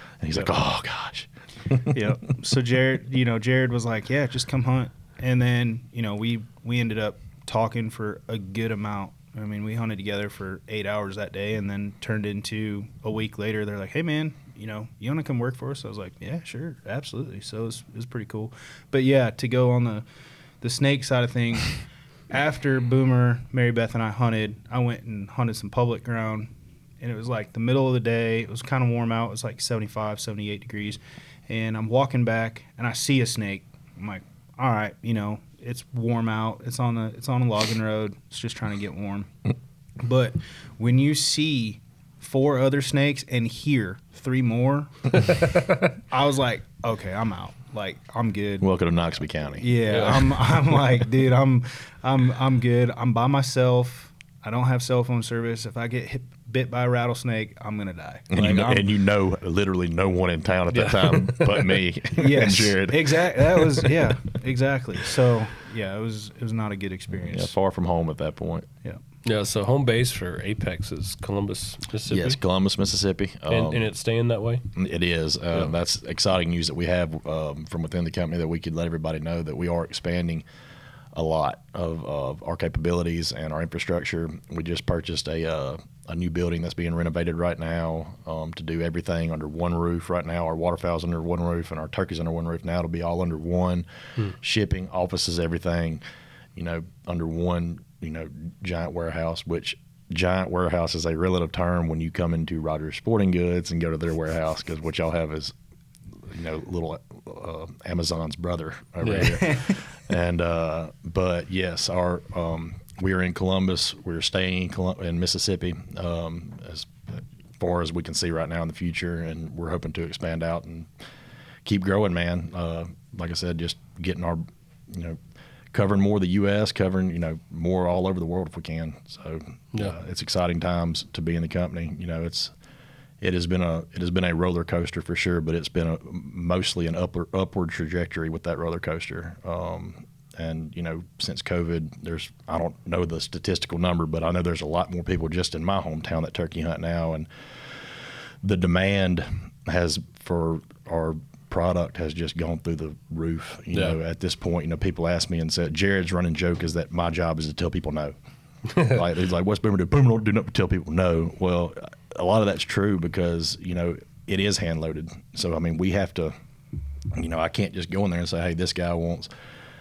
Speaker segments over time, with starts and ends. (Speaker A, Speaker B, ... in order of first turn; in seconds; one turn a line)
Speaker A: 0.2-2.0
Speaker B: 1.9-20.0
Speaker B: 20.6-21.8
Speaker B: 22.3-39.3
Speaker B: 40.0-45.3
Speaker C: 45.5-45.8
Speaker B: 46.1-48.7
Speaker A: 48.6-49.7
Speaker B: 49.6-58.9
Speaker C: 49.9-50.6
Speaker A: 58.3-64.0
Speaker C: 60.7-61.8
Speaker B: 62.1-67.5
Speaker A: 67.2-68.7
Speaker C: 69.2-72.4
Speaker A: 72.1-73.9
Speaker C: 73.5-74.7
Speaker A: 74.7-80.4
Speaker A: 81.1-96.0
Speaker A: 96.5-105.5
Speaker A: 106.2-120.9
Speaker C: 109.0-109.5
Speaker A: 121.6-125.2
Speaker A: 125.7-132.5
Speaker A: 133.2-158.1
Speaker A: 158.8-166.3
Speaker A: 167.1-169.3